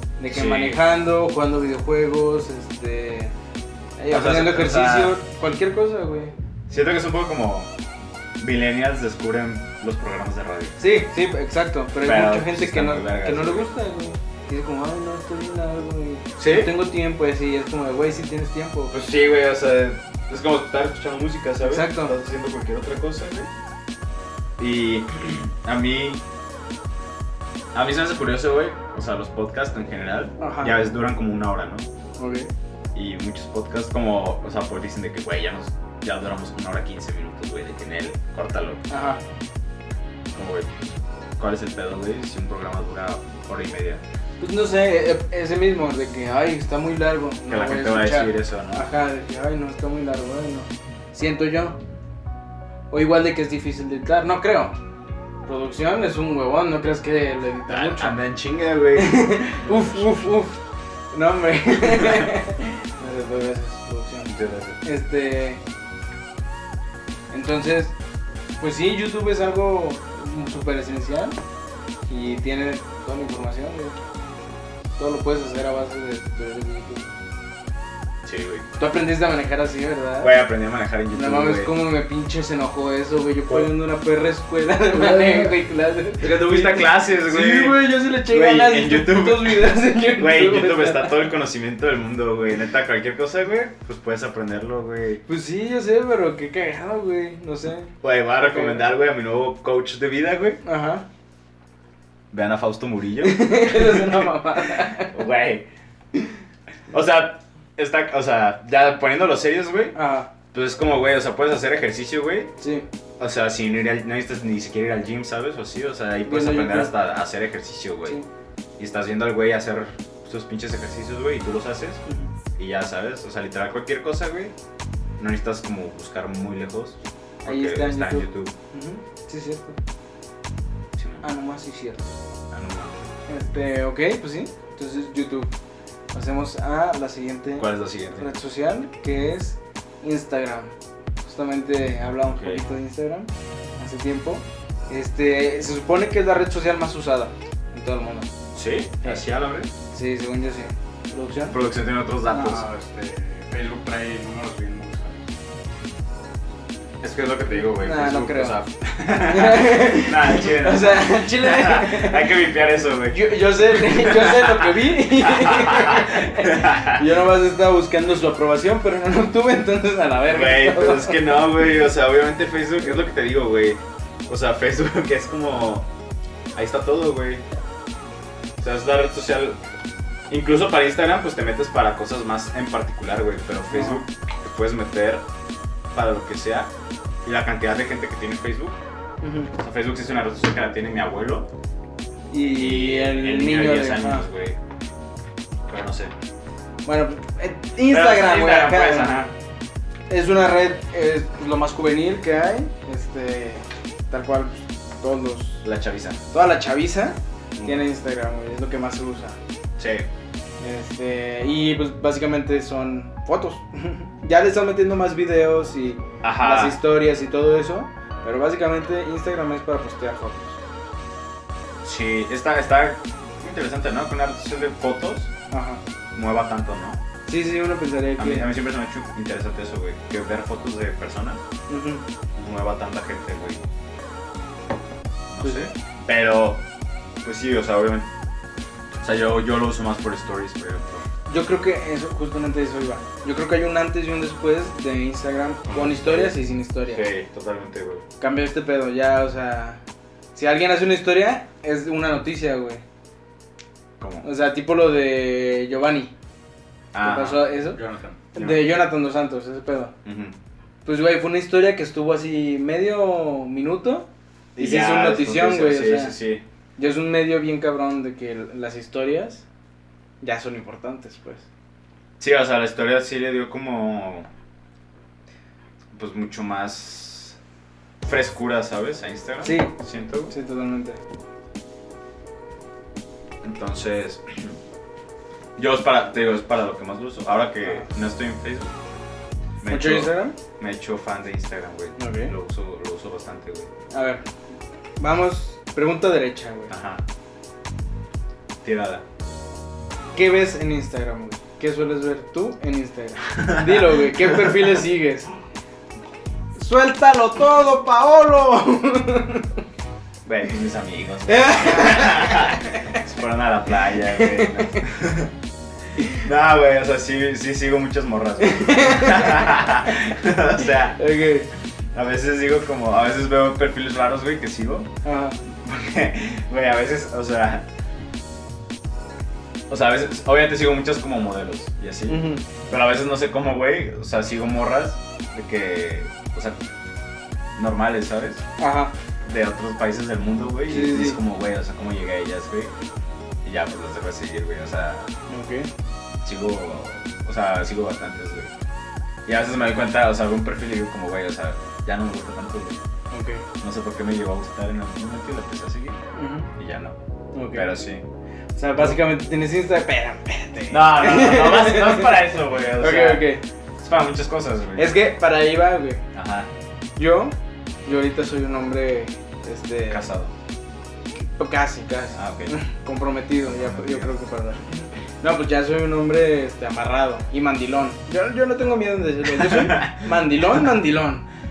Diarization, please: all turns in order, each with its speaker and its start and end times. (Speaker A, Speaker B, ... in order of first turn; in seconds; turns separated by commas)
Speaker A: 0.2-3.3, Speaker B: 0.3-0.8, Speaker A: 4.0-6.3, Speaker B: 4.1-5.2, Speaker B: 6.7-7.7, Speaker B: 8.4-10.8, Speaker A: 10.8-18.9, Speaker B: 12.0-13.7, Speaker B: 16.4-16.7, Speaker B: 18.9-23.5, Speaker A: 21.6-22.1, Speaker B: 24.6-26.2, Speaker B: 27.7-31.9, Speaker A: 30.4-30.8, Speaker A: 32.2-32.5, Speaker B: 32.9-38.8, Speaker A: 38.9-39.2, Speaker B: 40.3-44.0, Speaker A: 44.4-51.8, Speaker B: 47.5-48.9, Speaker A: 52.9-54.8, Speaker A: 55.5-58.2, Speaker B: 57.7-60.2, Speaker A: 58.9-60.6, Speaker A: 61.1-65.6, Speaker B: 62.0-62.3, Speaker B: 64.2-64.8, Speaker A: 67.3-67.9, Speaker A: 68.6-71.4, Speaker A: 72.1-74.0, Speaker A: 75.0-77.1, Speaker B: 78.2-78.7, Speaker A: 78.8-80.4, Speaker B: 80.2-81.7, Speaker A: 81.1-91.3, Speaker B: 84.9-85.5, Speaker B: 86.2-95.2, Speaker A: 95.3-98.8, Speaker B: 98.0-100.6, Speaker A: 100.6-101.0, Speaker B: 102.3-105.7, Speaker A: 103.2-105.2, Speaker B: 106.9-110.0, Speaker A: 109.9-110.3, Speaker B: 110.5-112.5, Speaker A: 112.6-112.8, Speaker B: 113.2-118.2, Speaker A: 116.2-116.9, Speaker B: 118.8-122.0, Speaker B: 122.6-124.5, Speaker B: 125.2-128.5, Speaker A: 127.4-129.8, Speaker B: 130.9-131.2, Speaker A: 131.2-132.1, Speaker B: 132.5-133.0, Speaker A: 133.3-135.5, Speaker A: 136.1-148.3, Speaker B: 137.6-138.3, Speaker B: 142.2-142.6, Speaker B: 148.5-149.7, Speaker A: 149.9-151.6, Speaker B: 151.5-152.7, Speaker C: 152.3-155.3, Speaker B: 157.0-167.0, Speaker A: 157.6-162.4, Speaker A: 163.1-171.5, Speaker B: 170.2-175.9, Speaker B: 176.5-177.4, Speaker B: 178.6-179.6, Speaker B: 180.3-185.2, Speaker A: 183.7-184.1, Speaker B: 185.9-186.7, Speaker B: 187.2-188.8, Speaker A: 189.2-189.5, Speaker B: 189.6-191.5, Speaker A: 192.3-194.2, Speaker B: 192.5-194.6, Speaker B: 195.7-196.1, Speaker A: 196.8-199.3, Speaker B: 197.9-199.3, Speaker A: 200.1-205.6, Speaker B: 205.6-206.2, Speaker A: 206.3-209.4, Speaker B: 207.6-207.8, Speaker B: 209.8-210.1, Speaker A: 210.6-220.6, Speaker B: 216.2-216.8, Speaker B: 221.8-225.3, Speaker A: 225.5-225.8, Speaker B: 226.1-227.0, Speaker A: 227.3-228.5, Speaker B: 228.2-231.4, Speaker A: 231.7-232.0, Speaker B: 232.3-233.6, Speaker B: 235.3-236.6, Speaker A: 235.4-235.7, Speaker B: 237.2-238.1, Speaker B: 239.0-241.0, Speaker A: 241.2-247.1, Speaker B: 245.7-248.0, Speaker A: 248.2-249.8, Speaker A: 250.3-252.8, Speaker B: 254.0-254.2, Speaker A: 254.2-256.1, Speaker B: 256.9-257.4, Speaker A: 257.0-257.8, Speaker C: 257.7-258.2, Speaker A: 258.3-259.9, Speaker B: 258.4-258.8, Speaker B: 260.0-260.4, Speaker A: 260.8-264.1, Speaker B: 264.6-266.4, Speaker A: 264.6-266.1, Speaker A: 266.8-269.4, Speaker A: 270.2-271.4, Speaker B: 272.2-274.3, Speaker B: 275.9-277.4, Speaker B: 278.0-280.3, Speaker A: 279.4-279.7, Speaker A: 280.3-281.0, Speaker B: 283.4-284.6, Speaker B: 285.6-288.7, Speaker B: 289.6-293.7, Speaker A: 289.7-290.4, Speaker A: 292.0-292.3, Speaker A: 293.9-294.2, Speaker A: 295.0-296.7, Speaker B: 296.7-297.0, Speaker B: 298.6-299.0, Speaker A: 300.1-305.3, Speaker A: 306.6-309.5, Speaker B: 310.2-315.3, Speaker A: 311.3-312.9, Speaker A: 314.1-314.8, Speaker B: 316.1-321.0, Speaker A: 318.4-320.0, Speaker A: 320.9-321.5, Speaker B: 321.9-324.9, Speaker A: 325.0-325.4, Speaker B: 325.4-327.7, Speaker B: 329.7-336.6, Speaker A: 332.1-332.4, Speaker B: 337.5-338.4, Speaker A: 338.6-338.9, Speaker B: 339.2-342.7, Speaker A: 340.7-341.2, Speaker B: 343.4-345.1, Speaker A: 345.3-345.7, Speaker B: 346.2-348.5, Speaker B: 349.2-352.8, Speaker A: 353.1-353.4, Speaker B: 353.6-356.0, Speaker A: 356.1-356.5, Speaker B: 356.6-357.0, Speaker A: 357.3-357.7, Speaker B: 357.5-358.0, Speaker A: 358.6-362.2, Speaker B: 360.7-363.3, Speaker A: 362.8-363.4, Speaker B: 363.8-365.0, Speaker A: 364.8-366.0, Speaker B: 366.1-366.5, Speaker A: 366.9-370.0, Speaker B: 369.9-370.3, Speaker A: 371.1-381.2, Speaker B: 372.1-372.5, Speaker B: 373.4-374.1, Speaker B: 379.3-379.9